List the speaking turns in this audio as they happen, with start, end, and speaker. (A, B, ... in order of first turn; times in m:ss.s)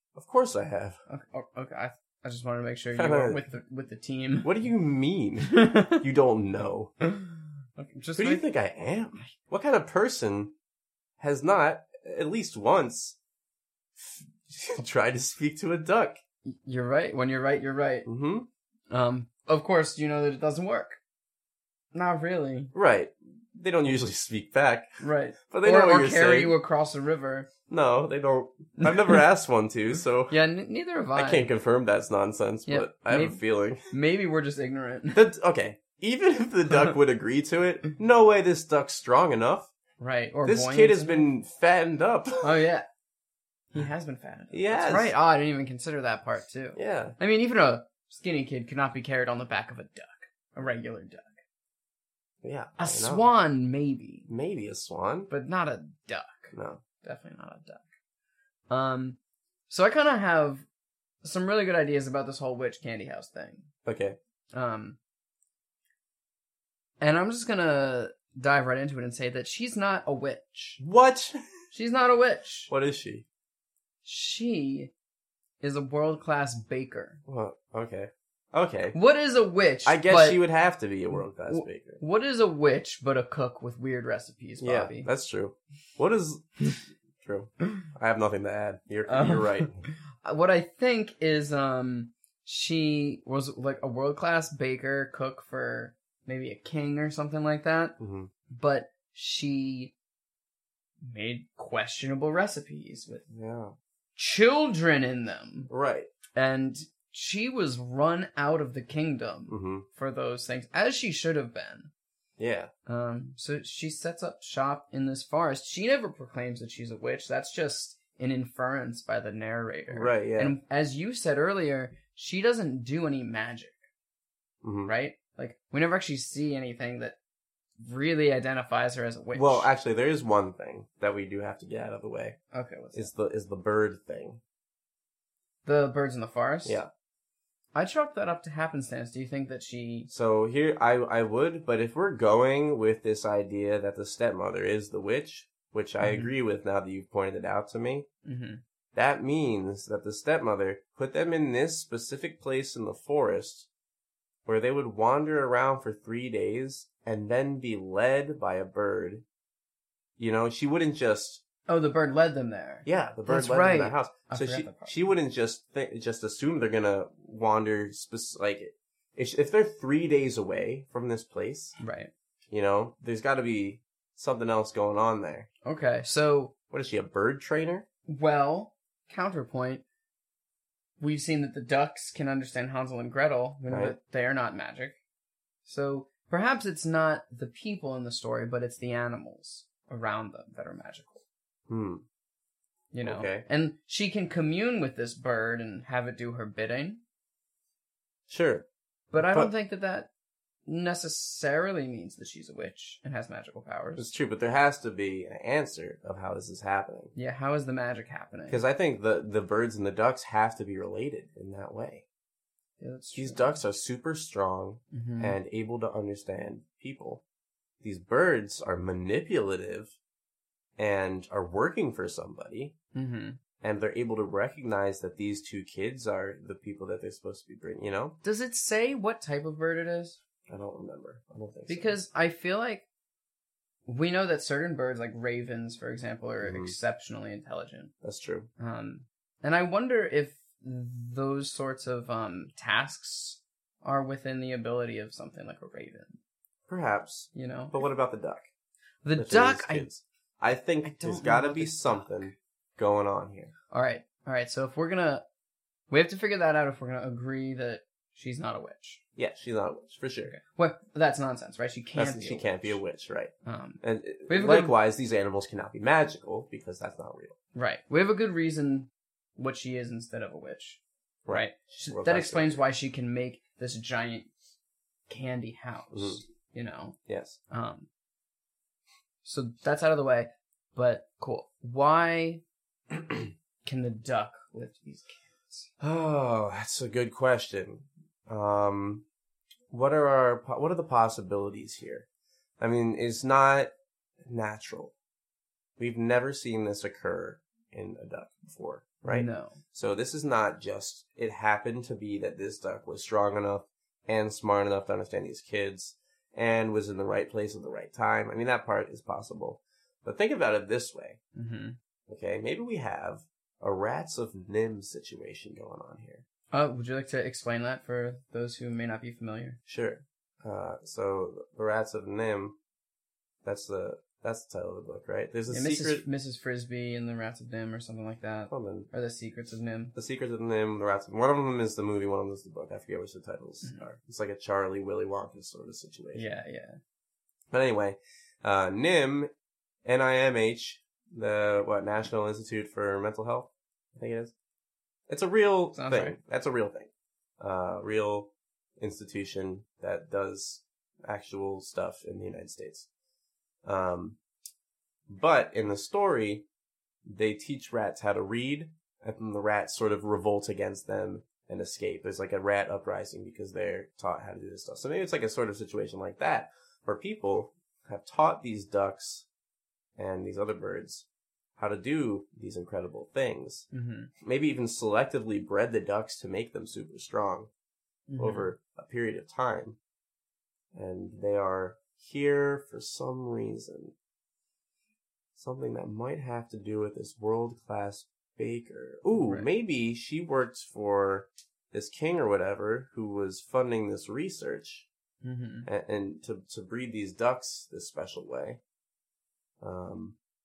0:00.1-0:01.0 A
0:01.1-0:04.5 B
0:02.9-0:03.4 A
0:04.4-0:06.9 A
0:05.5-0:06.0 B
0:07.0-0:08.4 B
0:08.2-0:10.5 A
0:11.2-0:13.2 A
0:14.0-0:16.2 A
0:16.4-0:18.1 B
0:18.0-0:18.5 A
0:18.9-0:21.0 B
0:21.9-0:22.7 B
0:22.7-0:26.6 A
0:25.0-0:27.5 B
0:27.7-0:30.3 A
0:28.8-0:29.2 B
0:30.3-0:31.4 B
0:31.1-0:33.9 A
0:32.6-0:35.2 B
0:35.1-0:39.7 A
0:40.0-0:41.3 B
0:40.4-0:42.6 A
0:42.4-0:42.8 B
0:43.7-0:51.3 B
0:44.5-0:45.1 A
0:46.7-0:47.2 A
0:52.4-0:53.2 A
0:52.8-0:54.3 B
0:54.3-0:55.3 A
0:55.3-0:57.8 B
0:56.5-0:56.8 A
0:58.7-0:59.2 B
0:59.7-1:00.6 B
1:01.2-1:03.7 B
1:03.8-1:04.2 A
1:04.5-1:05.0 B
1:07.0-1:10.8 B
1:10.8-1:11.4 A
1:11.7-1:12.7 B
1:12.7-1:13.2 A
1:14.0-1:14.9 B
1:15.6-1:17.2 B
1:17.2-1:19.0 A
1:18.9-1:20.4 B
1:19.8-1:22.0 A
1:21.4-1:25.1 B
1:24.6-1:26.7 A
1:27.2-1:29.8 A
1:29.1-1:38.0 B
1:38.0-1:38.3 A
1:38.5-1:39.9 B
1:41.0-1:43.2 B
1:43.3-1:43.7 A
1:44.2-1:45.7 B
1:45.7-1:46.1 A
1:46.3-1:51.9 B
1:49.5-1:49.8 A
1:52.4-1:52.7 A
1:52.8-2:03.8 B
1:59.9-2:00.5 A
2:04.6-2:04.9 A
2:04.9-2:07.2 B
2:07.8-2:09.7 B
2:09.3-2:12.4 A
2:12.5-2:13.1 B
2:12.9-2:14.4 A
2:15.6-2:16.8 B
2:16.6-2:16.9 A
2:17.7-2:20.1 B
2:20.1-2:28.0 A
2:26.0-2:26.3 B
2:28.2-2:28.6 B
2:28.9-2:33.7 A
2:34.4-2:39.2 A
2:40.2-2:41.4 A
2:41.7-2:45.0 B
2:42.8-2:51.8 A
2:51.8-2:52.1 B
2:52.5-2:55.5 A
2:55.6-2:56.5 B
2:56.7-2:57.8 A
2:58.1-2:59.8 B
3:01.0-3:04.9 B
3:03.7-3:04.0 A
3:05.6-3:11.2 B
3:11.7-3:12.0 A
3:12.9-3:17.0 B
3:13.0-3:13.4 A
3:18.3-3:19.5 A
3:19.1-3:20.1 B
3:20.7-3:24.1 B
3:24.0-3:27.1 A
3:27.1-3:28.6 B
3:28.5-3:32.0 A
3:32.8-3:33.5 B
3:33.1-3:37.2 A
3:34.9-3:35.4 B
3:37.8-3:39.9 A
3:40.8-3:42.7 A
3:42.9-3:43.4 B
3:43.6-3:48.2 A
3:48.2-3:50.2 B
3:50.5-3:52.0 A
3:51.7-3:52.8 B
3:53.9-3:57.9 B
3:56.4-3:56.7 A
3:58.0-3:58.5 A
3:58.6-4:06.2 B
4:06.7-4:08.5 A
4:07.3-4:07.8 B
4:09.0-4:09.9 B
4:09.2-4:13.5 A
4:10.8-4:12.3 B
4:13.7-4:15.2 B
4:15.9-4:19.0 B
4:19.2-4:20.3 A
4:20.3-4:22.8 B
4:22.0-4:27.4 A
4:23.4-4:24.7 B
4:27.5-4:34.3 B
4:31.2-4:32.6 A
4:35.1-4:37.0 B
4:35.9-4:36.2 A
4:37.1-4:37.4 A
4:37.5-4:37.9 B
4:39.2-4:42.4 B
4:43.6-4:45.7 B
4:45.8-4:49.0 A
4:49.7-4:52.0 A
4:52.6-4:53.7 A
4:54.2-4:54.9 A
4:55.8-5:11.2 A
4:59.1-4:59.6 B
5:11.3-5:11.8 B
5:12.1-5:16.2 A
5:16.5-5:19.6 B
5:19.7-5:22.6 A
5:23.4-5:26.0 A
5:25.5-5:29.9 B
5:28.5-5:28.9 A
5:29.9-5:36.3 A
5:36.1-5:36.8 B
5:37.5-5:39.3 A
5:39.8-5:44.3 A
5:45.1-5:52.9 A
5:45.7-5:46.2 B
5:53.6-5:54.2 A
5:55.1-5:56.4 A
5:57.0-6:09.3 A
6:10.0-6:11.0 A
6:11.6-6:13.7 A
6:13.7-6:14.1 B
6:14.2-6:17.5 A
6:18.1-6:18.5 B
6:18.2-6:19.8 A
6:20.7-6:23.9 A
6:25.4-6:34.9 A
6:29.2-6:29.4 B
6:35.2-6:35.7 B
6:35.6-6:38.6 A
6:39.6-6:40.2 A